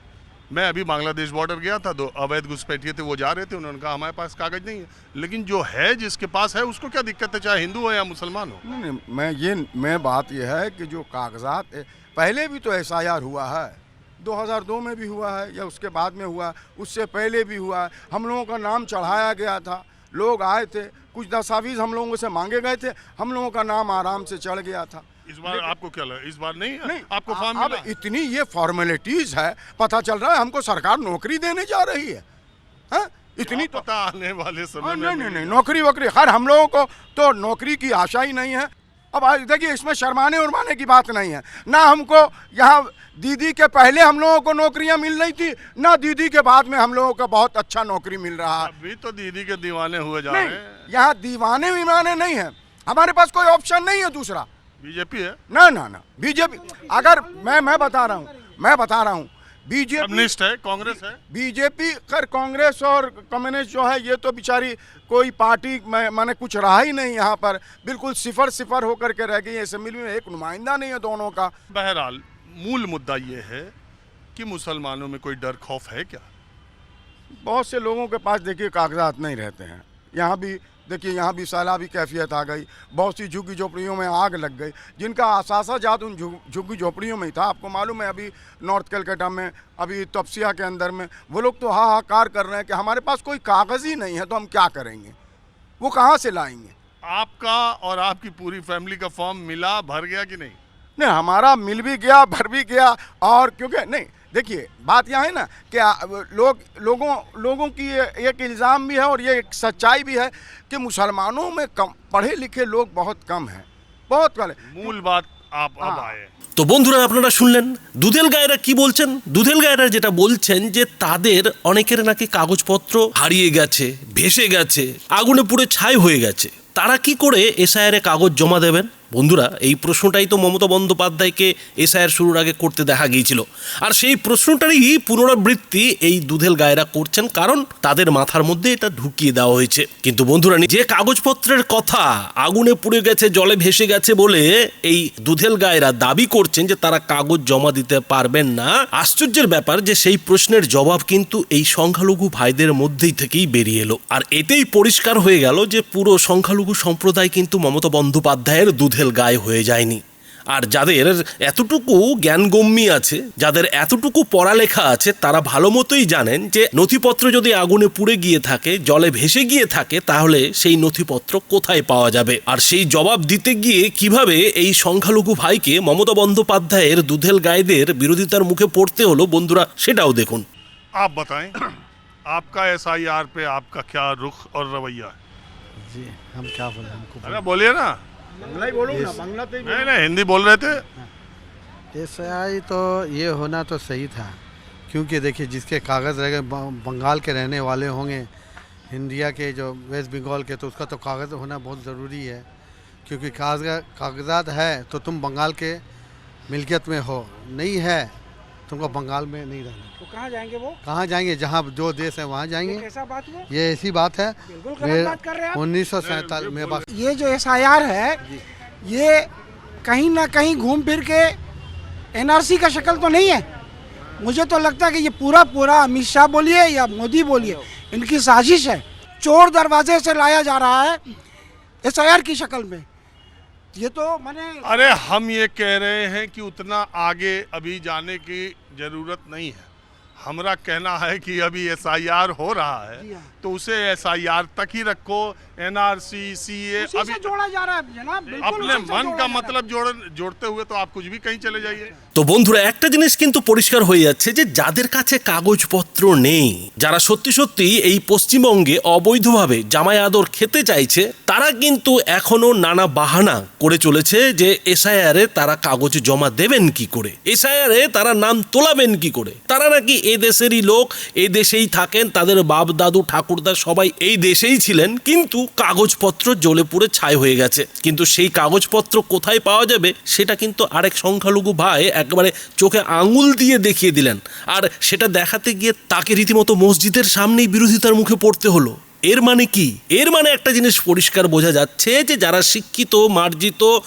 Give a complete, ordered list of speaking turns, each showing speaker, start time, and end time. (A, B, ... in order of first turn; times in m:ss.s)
0:00.5-0:08.6 A
0:08.7-0:25.7 B
0:25.3-0:27.9 A
0:26.9-0:32.2 B
0:32.9-0:33.8 B
0:33.4-0:35.7 A
0:34.8-0:48.7 B
0:48.6-0:50.8 A
0:50.3-0:54.5 B
0:54.8-0:55.4 A
0:55.5-1:00.3 B
0:56.9-0:58.0 C
1:00.0-1:01.2 A
1:01.3-1:11.5 B
1:11.7-1:13.7 A
1:14.4-1:16.3 A
1:17.4-1:35.2 B
1:35.8-1:36.7 B
1:37.0-1:40.6 A
1:41.0-1:55.0 B
1:54.6-1:56.3 A
1:55.8-1:56.2 B
1:56.6-2:40.0 D
2:40.5-3:00.5 D
3:01.0-3:01.6 A
3:02.3-3:05.2 A
3:05.8-3:07.4 E
3:07.2-3:08.0 A
3:08.4-3:10.0 B
3:08.9-3:09.2 E
3:09.6-3:10.8 A
3:11.9-3:18.3 E
3:18.9-3:22.5 E
3:23.1-3:25.8 E
3:26.5-3:28.1 E
3:28.7-3:30.0 E
3:30.0-3:30.8 C
3:30.8-3:32.9 E
3:32.6-3:33.5 C
3:33.5-3:36.9 E
3:34.5-3:35.6 C
3:36.0-3:36.8 A
3:36.8-3:38.2 C
3:38.8-3:39.3 C
3:39.8-3:41.4 C
3:42.1-3:43.5 C
3:44.2-3:51.1 C
3:51.8-3:52.8 C
3:53.8-3:55.0 C
3:54.6-4:07.3 A
4:03.0-4:03.3 C
4:06.8-4:09.6 C
4:08.3-4:11.9 A
4:12.2-4:53.7 D